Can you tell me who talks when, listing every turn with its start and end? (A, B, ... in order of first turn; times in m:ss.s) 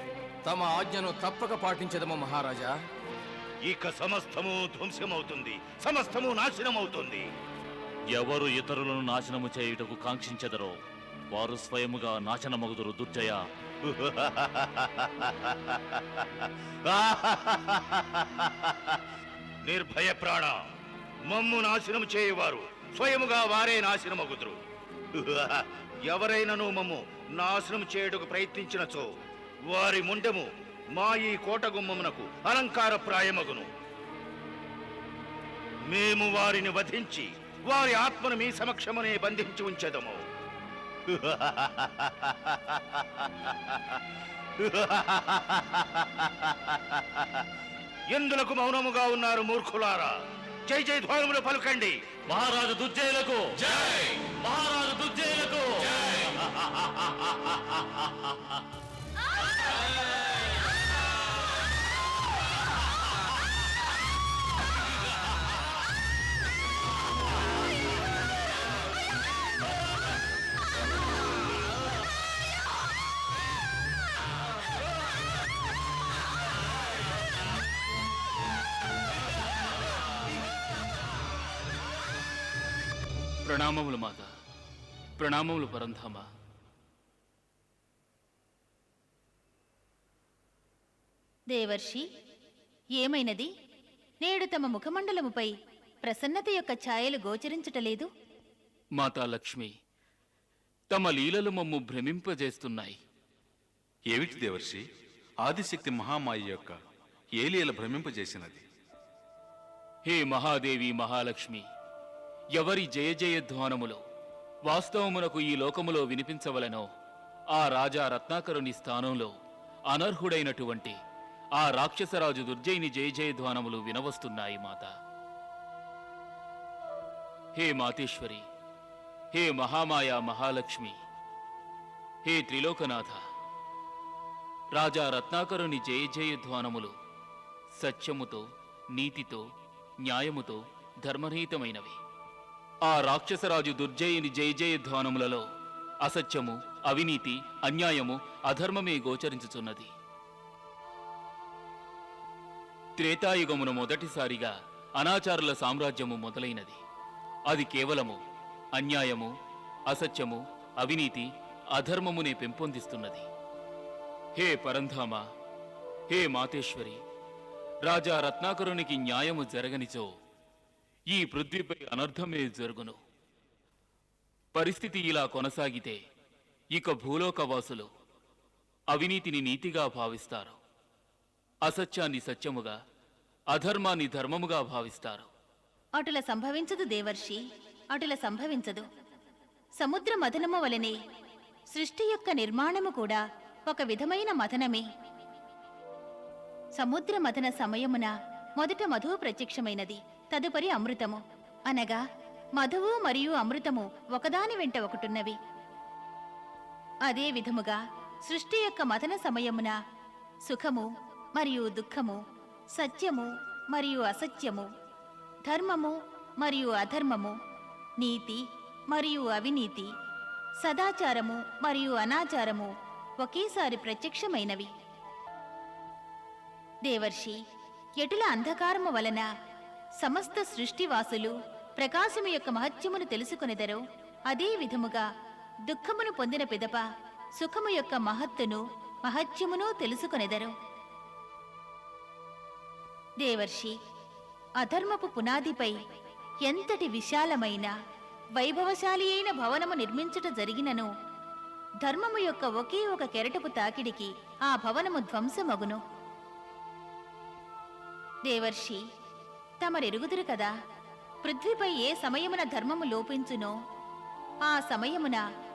0:00.4-0:02.8 A
0:03.7-0:07.3 B
0:08.1-0:10.7 C
0:11.3-0:13.4 C
0:13.9-0:19.0 B
0:19.6-0:20.6 B
0:21.3-0:24.6 B
0:25.2-0:29.1 B
0:29.7-0:33.7 B
0:35.9-0:40.2 B
0:41.1-0:44.0 B
0:44.6-0:47.4 B
0:48.1-0:52.0 B
0:52.3-0:57.6 C
1:23.4-1:24.3 D
1:25.2-1:26.3 D
1:31.5-1:32.0 E
1:33.0-1:33.5 E
1:34.2-1:35.5 E
1:36.0-1:38.1 E
1:39.0-1:39.7 D
1:40.9-1:43.0 D
1:44.1-1:44.8 F
1:45.4-1:46.8 F
1:47.3-1:48.6 F
1:50.1-1:51.6 D
1:52.6-1:54.0 D
1:54.7-1:56.9 D
1:57.6-1:59.3 D
1:59.9-2:01.0 D
2:01.6-2:04.9 D
2:07.6-2:08.4 D
2:09.3-2:11.0 D
2:12.2-2:13.2 D
2:14.8-2:16.9 D
2:17.8-2:18.4 D
2:19.0-2:19.5 D
2:20.0-2:22.0 D
2:22.9-2:25.4 D
2:26.1-2:29.9 D
2:33.0-2:36.8 D
2:37.5-2:38.2 D
2:38.8-2:39.3 D
2:39.9-2:43.3 D
2:44.4-2:45.2 D
2:46.1-2:47.0 D
2:47.9-2:50.1 D
2:51.1-2:53.0 D
2:54.5-2:56.0 D
2:56.8-2:57.9 D
2:58.9-3:00.6 D
3:01.7-3:02.8 D
3:03.5-3:05.3 D
3:06.0-3:07.4 E
3:07.9-3:08.8 E
3:09.8-3:11.0 E
3:11.7-3:14.8 E
3:16.8-3:22.0 E
3:22.6-3:25.4 E
3:27.1-3:29.7 E
3:30.5-3:30.9 E
3:31.4-3:32.2 E
3:32.8-3:34.7 E
3:35.5-3:37.3 E
3:38.0-3:38.4 E
3:38.9-3:39.9 E
3:40.6-3:42.7 E
3:43.2-3:44.7 E
3:46.9-3:47.4 E
3:48.0-3:49.3 E
3:50.0-3:55.0 E
3:55.7-3:56.8 E
3:57.4-4:00.5 E
4:03.2-4:03.7 E
4:04.6-4:05.7 E
4:06.5-4:07.7 E
4:08.4-4:10.9 E
4:11.8-4:15.8 E
4:18.3-4:18.8 E
4:19.6-4:20.5 E
4:21.2-4:23.5 E
4:24.5-4:25.2 E